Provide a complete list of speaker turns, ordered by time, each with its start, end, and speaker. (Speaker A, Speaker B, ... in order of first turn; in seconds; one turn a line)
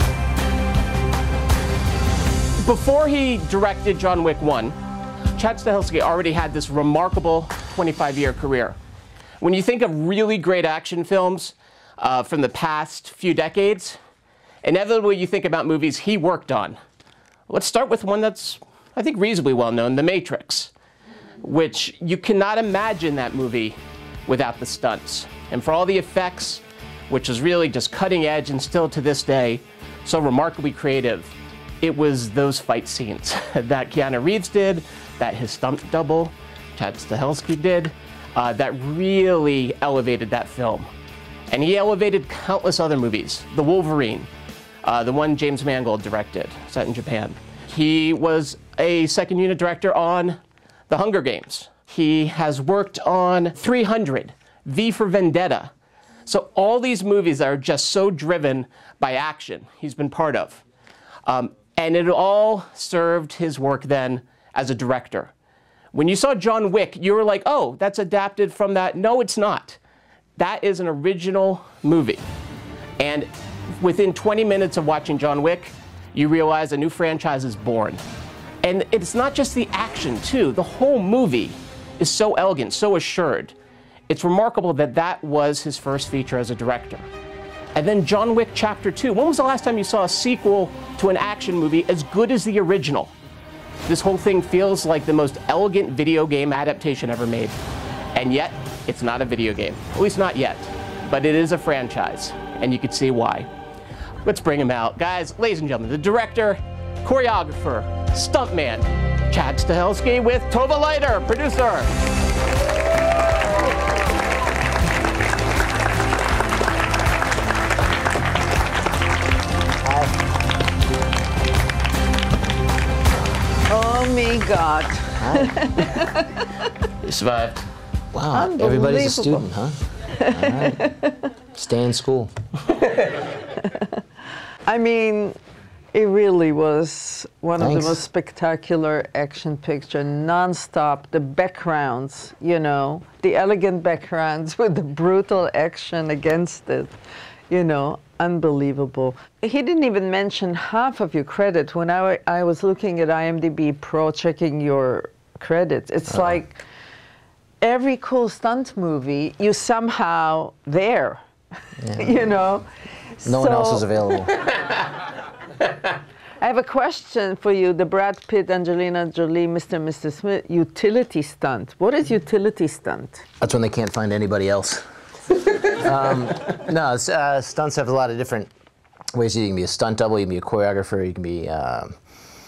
Speaker A: 2.6-4.8
Speaker A: 5.4-8.8
Speaker A: 9.4-14.0
Speaker A: 14.6-16.8
Speaker A: 17.5-20.7
Speaker A: 21.4-40.9
Speaker A: 41.5-44.3
Speaker A: 44.8-50.4
Speaker A: 50.9-55.7
Speaker A: 56.2-60.6
Speaker A: 61.2-65.3
Speaker A: 65.9-69.8
Speaker A: 70.4-72.2
Speaker A: 73.0-78.0
Speaker A: 78.6-83.5
Speaker A: 84.1-87.0
Speaker A: 87.8-93.1
Speaker A: 93.8-97.6
Speaker A: 98.1-103.5
Speaker A: 104.2-111.9
Speaker B: 119.8-120.2
Speaker C: 123.7-126.4
Speaker B: 125.2-125.6
Speaker A: 127.0-127.7
Speaker B: 128.1-130.9
Speaker C: 128.3-129.4
Speaker C: 130.2-131.2
Speaker B: 131.6-132.3
Speaker C: 134.7-135.4
Speaker C: 135.9-146.9
Speaker B: 137.6-138.0
Speaker C: 147.5-156.6
Speaker B: 156.1-156.4
Speaker C: 157.6-161.2
Speaker B: 161.8-162.3
Speaker C: 162.0-162.7
Speaker C: 163.2-163.8
Speaker B: 163.2-164.4
Speaker C: 166.4-173.2
Speaker B: 173.4-174.8
Speaker B: 175.5-178.5
Speaker B: 179.1-181.9